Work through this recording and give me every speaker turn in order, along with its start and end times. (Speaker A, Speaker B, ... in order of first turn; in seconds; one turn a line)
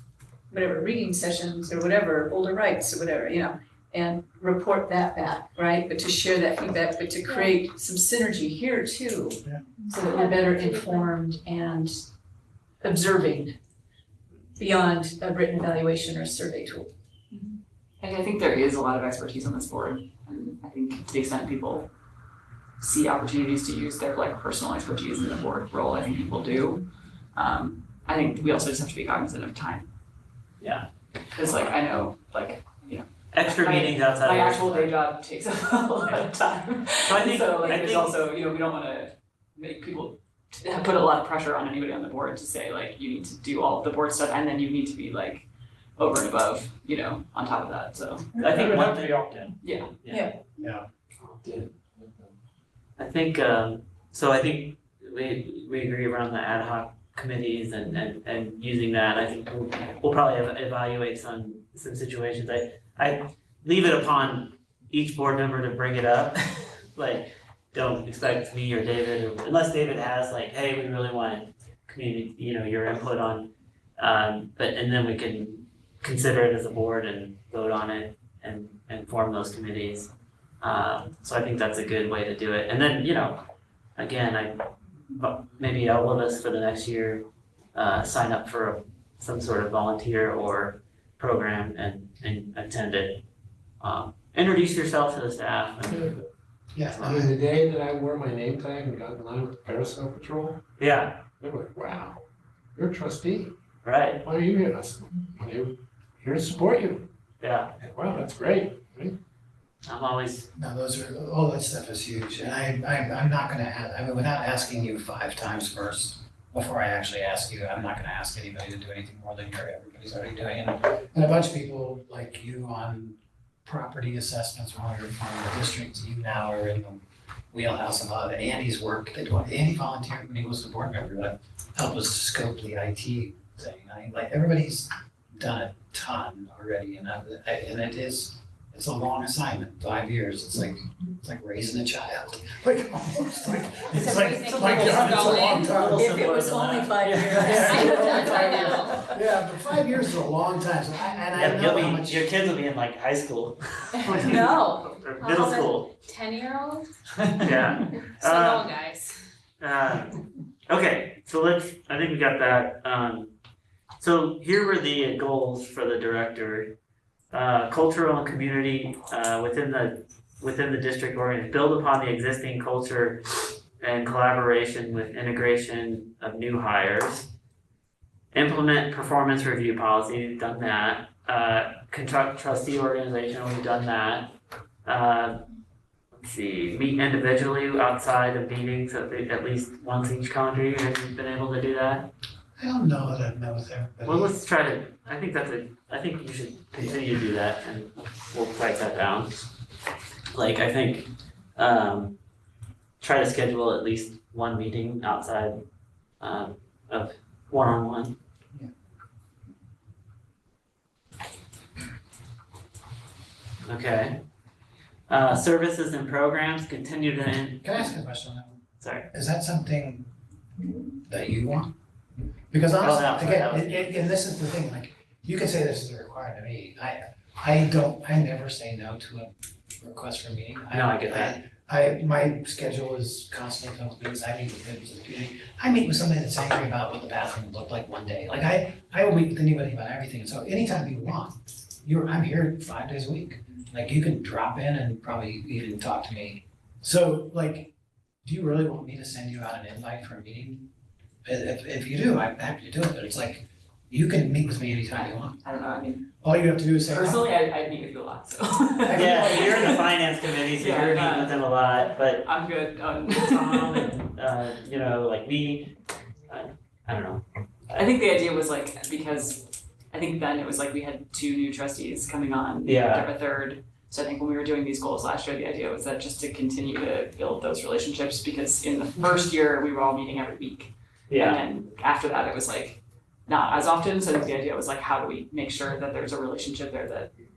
Speaker A: 0.5-12.0
Speaker B: 9.9-11.1
Speaker A: 12.8-13.6
Speaker A: 14.6-16.9
Speaker C: 17.3-21.9
Speaker C: 22.8-29.9
Speaker D: 30.6-30.9
Speaker C: 31.4-48.5
Speaker D: 33.3-34.9
Speaker D: 37.0-38.1
Speaker D: 48.4-50.3
Speaker E: 48.5-49.1
Speaker C: 49.6-49.9
Speaker A: 50.1-50.4
Speaker F: 50.6-50.9
Speaker E: 51.2-52.3
Speaker D: 53.0-83.4
Speaker D: 84.0-84.6
Speaker D: 85.1-93.2
Speaker D: 93.8-96.2
Speaker E: 95.9-96.2
Speaker F: 96.7-97.3
Speaker E: 97.0-100.7
Speaker D: 100.8-101.2
Speaker E: 101.4-102.2
Speaker E: 102.8-103.6
Speaker D: 103.8-104.2
Speaker E: 104.2-107.1
Speaker D: 107.4-107.7
Speaker E: 107.8-109.2
Speaker D: 109.8-110.5
Speaker F: 110.6-146.2
Speaker B: 143.9-145.9
Speaker D: 144.8-148.2
Speaker A: 145.7-148.8
Speaker B: 147.0-149.0
Speaker F: 147.2-152.3
Speaker D: 151.3-155.9
Speaker F: 154.1-154.5
Speaker B: 154.1-156.9
Speaker D: 157.4-158.7
Speaker B: 158.2-159.2
Speaker D: 159.6-163.3
Speaker D: 164.0-166.7
Speaker D: 167.3-177.3
Speaker D: 178.3-184.3
Speaker D: 184.9-185.4
Speaker D: 186.1-192.1
Speaker F: 192.6-194.4
Speaker D: 194.1-199.4
Speaker D: 200.3-202.2
Speaker D: 203.0-205.6
Speaker D: 206.2-208.2
Speaker D: 213.7-214.2
Speaker D: 215.1-217.9
Speaker F: 217.6-220.1
Speaker D: 218.8-219.1
Speaker F: 221.1-221.7
Speaker F: 222.5-247.7
Speaker D: 222.8-223.9
Speaker D: 230.7-231.4
Speaker F: 248.2-250.7
Speaker F: 251.2-255.4
Speaker C: 255.4-256.1
Speaker F: 256.2-257.3
Speaker C: 256.9-259.9
Speaker F: 258.8-259.8
Speaker D: 258.9-262.2
Speaker C: 260.4-261.4
Speaker C: 262.2-264.0
Speaker D: 263.1-265.7
Speaker D: 266.3-267.2
Speaker C: 267.7-287.1
Speaker D: 272.6-273.1
Speaker D: 281.1-281.4